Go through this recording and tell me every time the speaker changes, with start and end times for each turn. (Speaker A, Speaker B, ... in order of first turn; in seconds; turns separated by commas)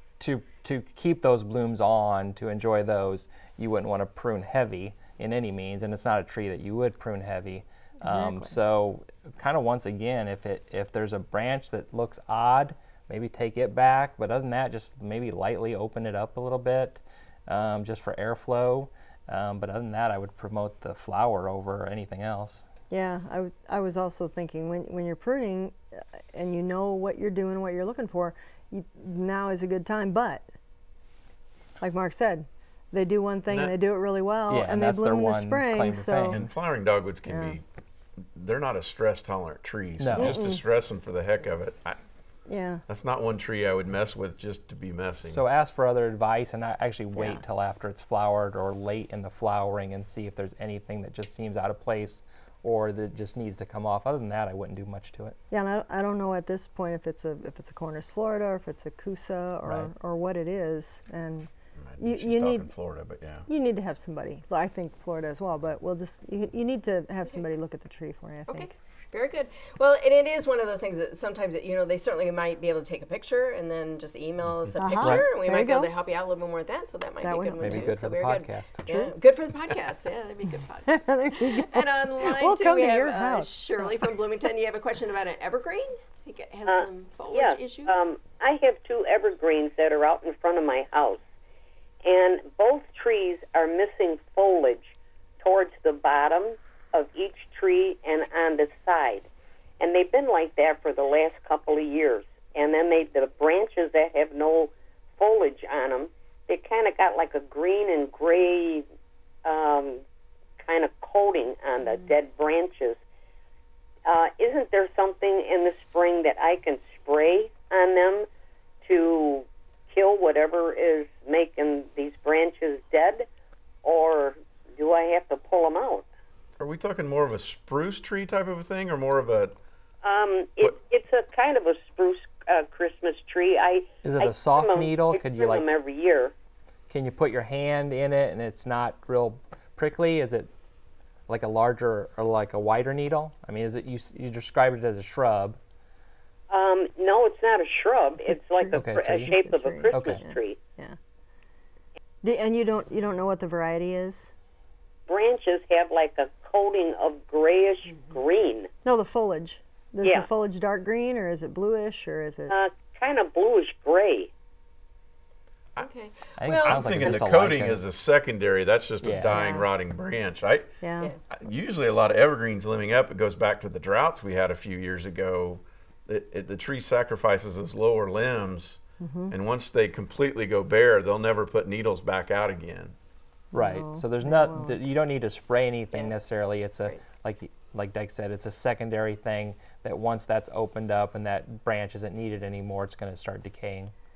Speaker A: 0.2-22.6, Speaker B: 8.0-8.6, Speaker B: 22.9-30.5, Speaker B: 31.8-36.4, Speaker A: 34.5-36.5, Speaker C: 36.3-37.6, Speaker B: 37.3-37.6, Speaker C: 38.3-42.0, Speaker A: 40.0-40.5, Speaker B: 40.2-40.6, Speaker B: 42.5-42.8, Speaker C: 42.9-45.4, Speaker A: 45.2-55.4, Speaker B: 47.1-47.4, Speaker B: 55.5-62.7, Speaker C: 61.8-63.5, Speaker B: 63.5-68.7, Speaker D: 68.5-88.1, Speaker B: 74.8-75.9, Speaker A: 75.0-75.2, Speaker B: 77.2-77.9, Speaker A: 77.6-78.8, Speaker B: 78.9-79.1, Speaker B: 80.9-84.2, Speaker E: 86.7-91.2, Speaker E: 92.0-94.9, Speaker E: 95.4-99.3, Speaker E: 99.8-108.8, Speaker E: 109.5-110.0, Speaker E: 110.6-113.0, Speaker E: 114.1-118.3, Speaker E: 118.8-123.3, Speaker E: 123.8-126.1, Speaker C: 126.6-129.6, Speaker E: 130.0-136.3, Speaker A: 134.0-135.7, Speaker A: 136.9-140.5, Speaker A: 141.3-145.6, Speaker E: 146.5-150.6, Speaker B: 148.2-151.0, Speaker A: 148.7-150.3, Speaker B: 152.2-154.3, Speaker E: 155.1-158.7, Speaker D: 157.9-158.2, Speaker B: 158.8-162.5, Speaker E: 160.0-160.3, Speaker E: 162.5-164.3, Speaker D: 165.8-167.2, Speaker A: 166.4-167.8, Speaker C: 166.6-170.7, Speaker A: 169.0-169.4, Speaker B: 169.3-169.7, Speaker B: 170.8-171.1, Speaker C: 171.3-182.9, Speaker B: 179.0-179.3, Speaker A: 183.5-193.9, Speaker B: 183.5-184.8